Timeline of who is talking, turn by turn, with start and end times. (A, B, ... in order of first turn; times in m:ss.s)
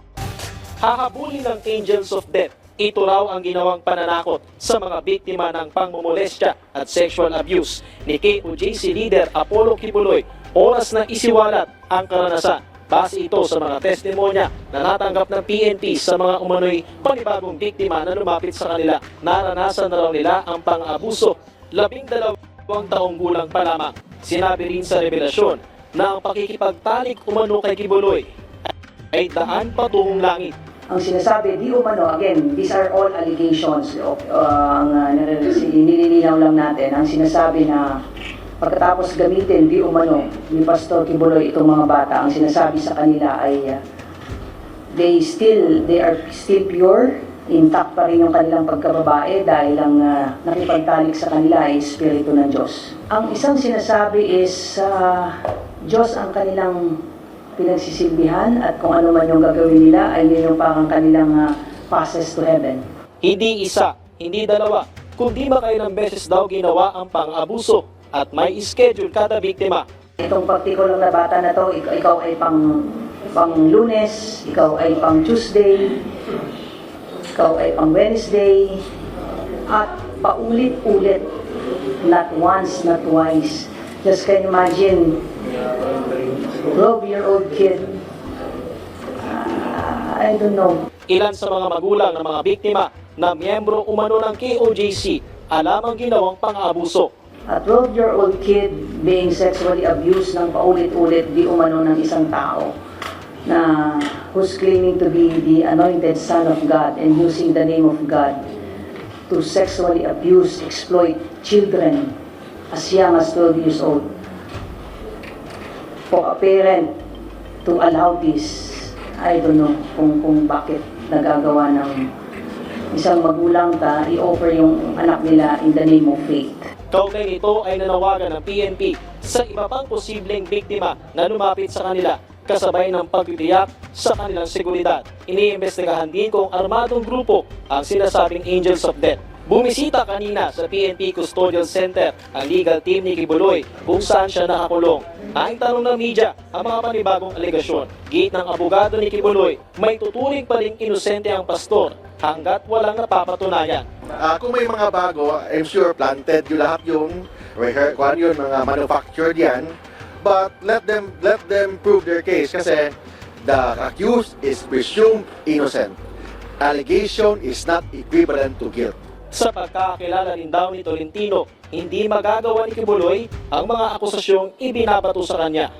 0:00.8-0:28.3 A
0:29.1-0:30.6 A
0:30.9-0:38.0 B
0:38.6-0:43.8 B
0:44.9-0:55.4 B
0:55.9-0:57.0 B
0:57.6-1:02.8 B
1:03.2-1:09.9 A
1:10.2-1:16.0 B
1:17.3-1:18.8 B
1:19.7-1:21.3 B
1:22.0-1:25.2 B
1:26.5-1:28.0 B
1:29.2-1:30.8 B
1:31.1-1:37.1 A
1:37.5-1:42.7 B
1:43.5-1:48.5 B
1:49.3-1:52.1 B
1:52.7-1:54.1 B
1:56.1-1:56.9 B
1:57.6-2:02.1 B
2:02.9-2:06.7 B
2:06.9-2:33.9 A
2:34.2-2:46.0 C
2:46.6-2:49.0 C
2:49.3-2:55.7 A